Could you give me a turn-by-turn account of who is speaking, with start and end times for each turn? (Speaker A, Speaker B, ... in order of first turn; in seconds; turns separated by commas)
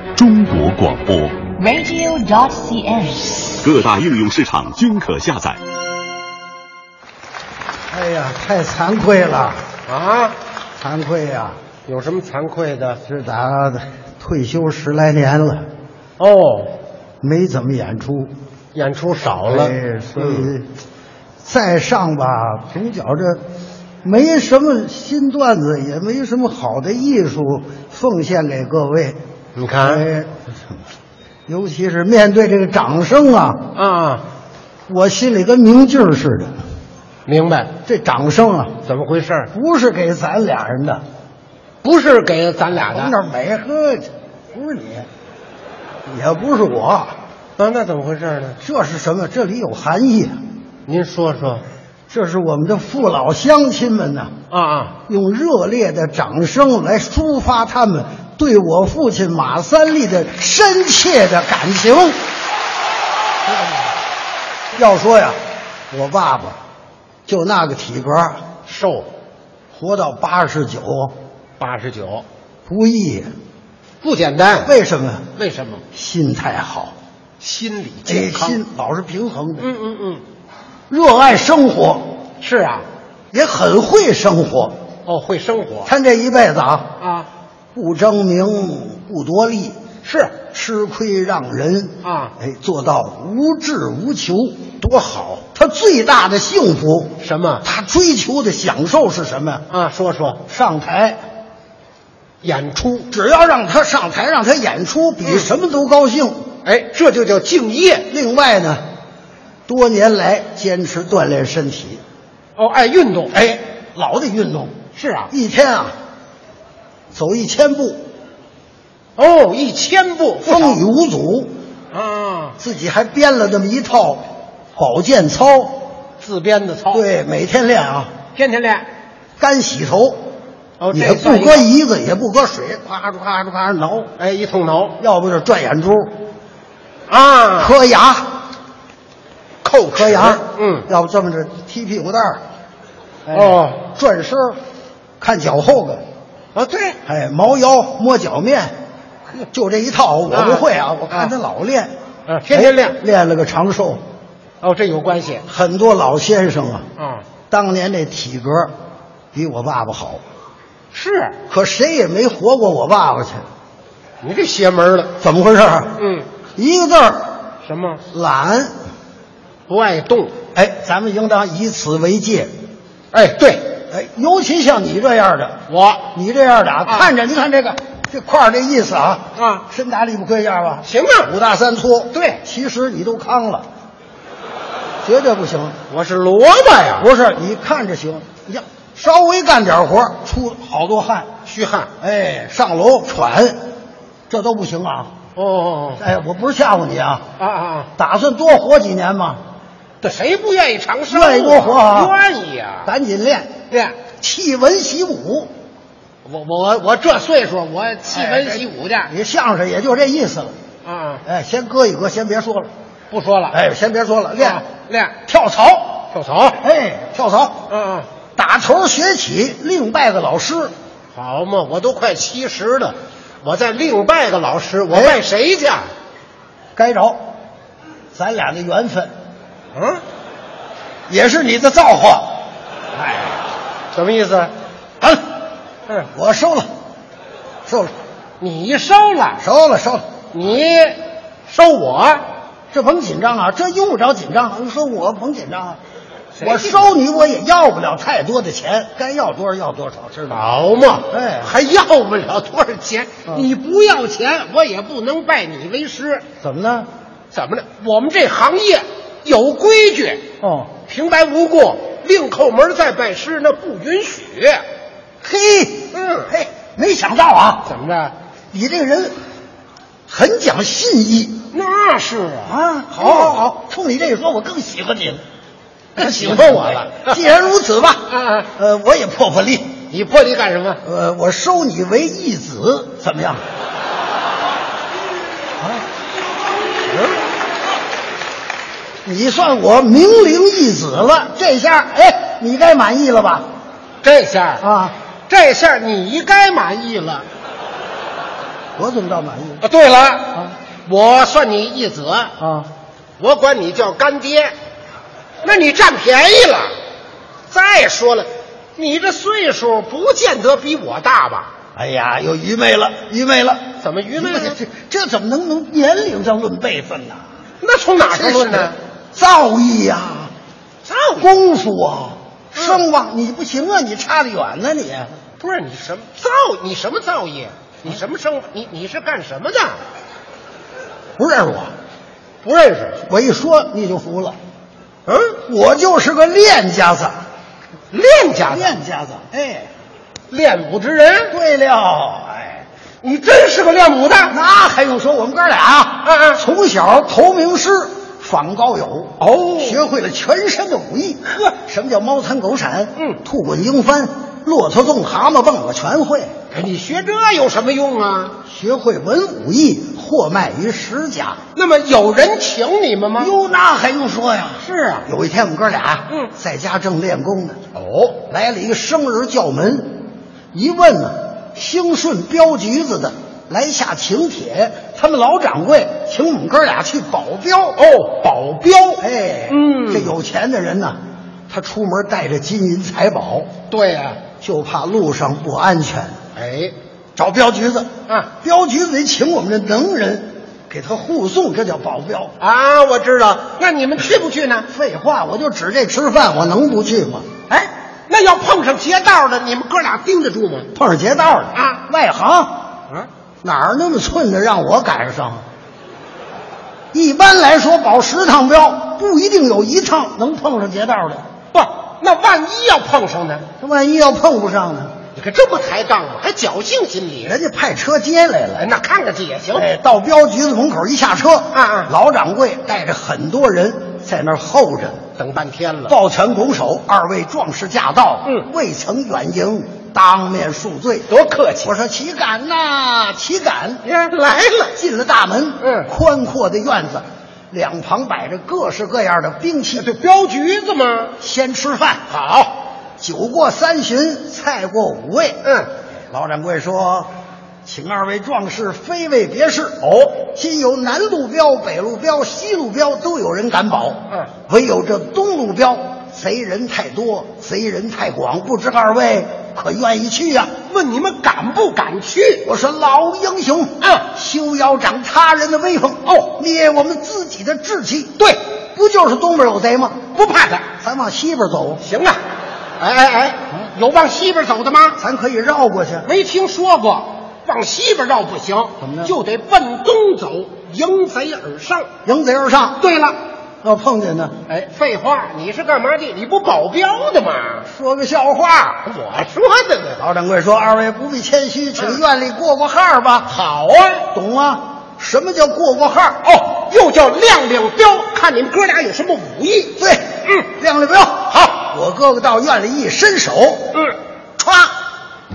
Speaker A: 0.2-1.6, Speaker B: 1.6-3.6, Speaker A: 3.6-5.6, Speaker C: 7.9-9.7, Speaker D: 9.9-10.4, Speaker C: 10.8-11.6, Speaker D: 11.9-13.0, Speaker C: 13.0-15.7, Speaker D: 16.2-16.7, Speaker C: 17.2-18.3, Speaker D: 18.7-20.5, Speaker C: 19.5-20.7, Speaker C: 21.4-23.4, Speaker C: 24.0-29.2, Speaker D: 29.6-30.1, Speaker C: 29.8-30.4, Speaker C: 31.5-33.7, Speaker D: 33.8-34.2, Speaker C: 34.9-36.5, Speaker D: 37.3-37.7, Speaker C: 37.9-38.8, Speaker D: 38.9-39.5, Speaker C: 39.5-41.0, Speaker D: 41.8-43.1, Speaker C: 42.9-45.1, Speaker C: 46.1-47.1, Speaker D: 47.6-48.6, Speaker C: 48.6-50.4, Speaker D: 50.9-51.6, Speaker C: 52.1-54.3, Speaker D: 54.5-54.9, Speaker C: 55.1-62.2, Speaker C: 64.8-65.4, Speaker C: 65.9-66.6, Speaker C: 67.3-68.5, Speaker D: 68.7-69.1, Speaker C: 69.7-71.1, Speaker D: 71.6-72.2, Speaker C: 72.7-73.3, Speaker D: 74.0-74.7, Speaker C: 74.6-75.3, Speaker D: 75.4-75.8, Speaker C: 75.9-76.9, Speaker D: 77.4-78.6, Speaker C: 78.1-79.7, Speaker D: 79.6-80.2, Speaker C: 80.9-82.2, Speaker D: 82.4-82.9, Speaker C: 83.3-84.8, Speaker D: 85.1-85.9, Speaker C: 85.9-87.0, Speaker D: 87.0-87.3, Speaker C: 87.8-89.8, Speaker D: 90.0-90.4, Speaker C: 90.5-94.8, Speaker D: 92.0-92.3, Speaker D: 94.8-95.4, Speaker C: 95.5-99.7, Speaker D: 97.2-97.7, Speaker D: 99.7-100.4, Speaker C: 100.5-101.2, Speaker D: 102.4-103.1, Speaker C: 103.1-106.4, Speaker D: 106.7-108.1, Speaker C: 108.1-108.8, Speaker C: 109.7-112.0, Speaker D: 112.6-113.4, Speaker C: 113.3-114.8, Speaker D: 115.0-115.3, Speaker C: 115.3-115.9, Speaker C: 117.1-118.0, Speaker D: 119.2-120.8, Speaker C: 120.5-121.5, Speaker D: 121.9-122.6, Speaker C: 122.6-124.2, Speaker C: 124.8-125.9, Speaker D: 126.2-127.0, Speaker C: 126.9-128.1, Speaker D: 128.3-128.9, Speaker C: 129.4-130.2, Speaker D: 130.8-131.7, Speaker C: 130.9-134.1, Speaker D: 134.2-135.0, Speaker C: 135.0-136.2, Speaker D: 137.1-137.8, Speaker C: 137.6-138.3, Speaker D: 139.6-140.9, Speaker C: 139.9-142.4, Speaker C: 143.3-144.6, Speaker D: 143.3-143.8, Speaker C: 145.2-146.0, Speaker D: 146.6-147.0, Speaker C: 147.1-148.8, Speaker C: 149.5-151.9, Speaker D: 150.3-151.3, Speaker D: 152.3-153.0, Speaker C: 152.5-154.0, Speaker D: 154.6-155.5, Speaker C: 155.5-156.9, Speaker D: 157.0-157.2, Speaker C: 157.5-158.7, Speaker C: 159.3-160.2, Speaker D: 160.9-161.4, Speaker C: 161.5-163.4, Speaker D: 164.2-165.1, Speaker C: 165.2-166.0, Speaker D: 166.0-166.3, Speaker C: 166.6-167.3, Speaker D: 167.6-168.0, Speaker C: 168.1-168.7, Speaker D: 169.7-170.3, Speaker C: 170.5-172.5, Speaker D: 173.1-173.7, Speaker C: 173.9-175.6, Speaker D: 175.7-176.0, Speaker C: 176.1-183.7, Speaker D: 176.9-177.1, Speaker D: 179.4-179.7, Speaker D: 180.8-181.3, Speaker D: 182.1-182.4, Speaker C: 185.0-185.8, Speaker D: 185.9-187.1, Speaker C: 187.0-191.3, Speaker D: 191.5-191.9, Speaker C: 192.0-193.6, Speaker C: 194.3-195.1, Speaker D: 195.4-196.0, Speaker C: 196.0-197.2, Speaker D: 197.4-197.9, Speaker C: 198.0-199.4, Speaker D: 200.0-202.9, Speaker C: 201.1-202.2, Speaker C: 202.8-203.5, Speaker D: 203.7-204.0, Speaker C: 204.2-205.5, Speaker D: 206.2-209.1, Speaker C: 208.1-210.6, Speaker D: 210.8-211.2, Speaker C: 211.2-212.7, Speaker D: 213.1-213.6, Speaker C: 213.5-214.6, Speaker D: 214.4-216.6, Speaker C: 215.3-215.9, Speaker C: 216.6-217.6, Speaker D: 217.7-218.1, Speaker C: 218.4-220.7, Speaker D: 221.1-225.9, Speaker C: 224.9-225.2, Speaker C: 226.8-227.2, Speaker C: 228.1-229.1, Speaker D: 229.8-230.0, Speaker C: 231.1-232.4, Speaker D: 233.9-234.5, Speaker C: 236.1-236.7, Speaker C: 237.7-237.9, Speaker D: 238.4-239.4, Speaker C: 239.4-240.1, Speaker D: 240.3-242.2, Speaker C: 242.7-245.8, Speaker D: 246.3-246.9, Speaker C: 246.4-250.4, Speaker D: 250.3-256.2, Speaker C: 251.1-251.5, Speaker C: 256.4-256.9, Speaker D: 257.3-260.2, Speaker C: 260.4-260.7, Speaker D: 260.8-264.6, Speaker C: 265.2-267.7, Speaker D: 265.9-266.3, Speaker D: 267.6-268.1, Speaker C: 268.5-269.1, Speaker C: 270.1-271.5, Speaker D: 271.5-273.4, Speaker C: 272.4-275.2, Speaker C: 275.9-279.8, Speaker D: 276.0-277.2, Speaker D: 278.1-278.5, Speaker D: 279.9-280.8, Speaker C: 280.8-283.4, Speaker D: 286.9-287.2, Speaker C: 289.1-293.5, Speaker D: 294.0-294.7, Speaker C: 294.6-295.0, Speaker D: 295.3-297.3, Speaker C: 298.8-299.6, Speaker D: 299.6-302.3, Speaker C: 302.4-302.7, Speaker D: 303.2-304.5, Speaker D: 305.4-306.8, Speaker D: 307.5-311.5, Speaker C: 311.8-317.2, Speaker D: 313.8-314.6, Speaker D: 317.6-318.8, Speaker C: 318.0-320.3, Speaker D: 320.9-321.3, Speaker C: 321.1-325.1, Speaker D: 322.6-322.8, Speaker D: 325.4-329.8, Speaker C: 331.2-331.7, Speaker D: 332.4-333.0, Speaker C: 333.0-334.4, Speaker D: 335.1-335.4, Speaker C: 335.4-337.1, Speaker D: 337.9-338.8, Speaker C: 338.4-339.7, Speaker D: 340.3-341.4, Speaker C: 341.3-342.6, Speaker D: 343.0-344.4, Speaker C: 344.3-356.3, Speaker D: 346.1-346.4, Speaker D: 349.2-349.8, Speaker D: 356.5-358.4, Speaker C: 358.5-361.4, Speaker D: 361.6-363.3, Speaker C: 363.2-367.6, Speaker D: 364.6-365.1, Speaker D: 367.8-368.2, Speaker C: 368.2-377.8, Speaker D: 377.8-380.1, Speaker C: 379.0-381.0, Speaker C: 381.5-383.5, Speaker D: 383.7-384.2, Speaker C: 384.4-386.2, Speaker D: 386.4-386.7, Speaker C: 387.2-392.4, Speaker D: 392.4-394.7, Speaker C: 394.7-397.3, Speaker D: 397.5-400.7, Speaker C: 400.7-402.7, Speaker D: 401.5-401.8, Speaker C: 403.4-405.4, Speaker C: 406.9-411.2, Speaker D: 411.5-413.4, Speaker C: 413.6-414.9, Speaker D: 415.1-417.4, Speaker C: 417.2-418.7, Speaker D: 418.6-419.7, Speaker C: 419.5-425.0, Speaker D: 421.5-421.9, Speaker D: 425.2-426.0, Speaker C: 425.9-431.1, Speaker D: 431.1-431.7, Speaker C: 431.6-433.8, Speaker D: 433.8-434.8, Speaker C: 434.8-439.9, Speaker D: 435.6-435.9, Speaker D: 439.8-441.1, Speaker C: 441.2-442.0, Speaker D: 442.1-442.5, Speaker C: 443.0-445.4, Speaker C: 446.1-447.1, Speaker C: 447.6-460.5, Speaker D: 460.7-462.5, Speaker C: 462.4-468.2, Speaker D: 463.8-464.1, Speaker C: 468.7-470.1, Speaker D: 470.1-470.7, Speaker C: 470.8-471.8, Speaker D: 471.8-472.2, Speaker D: 472.8-475.0, Speaker C: 475.0-476.1, Speaker D: 476.1-481.9, Speaker C: 478.8-479.2, Speaker C: 482.1-482.8, Speaker D: 482.8-483.2, Speaker C: 483.6-484.4, Speaker D: 484.5-487.7, Speaker C: 487.7-488.9, Speaker D: 488.8-490.0, Speaker C: 490.0-493.3, Speaker D: 493.3-494.1, Speaker C: 494.1-496.2, Speaker D: 496.2-500.5, Speaker C: 499.8-503.7, Speaker D: 501.3-501.6, Speaker C: 504.4-504.7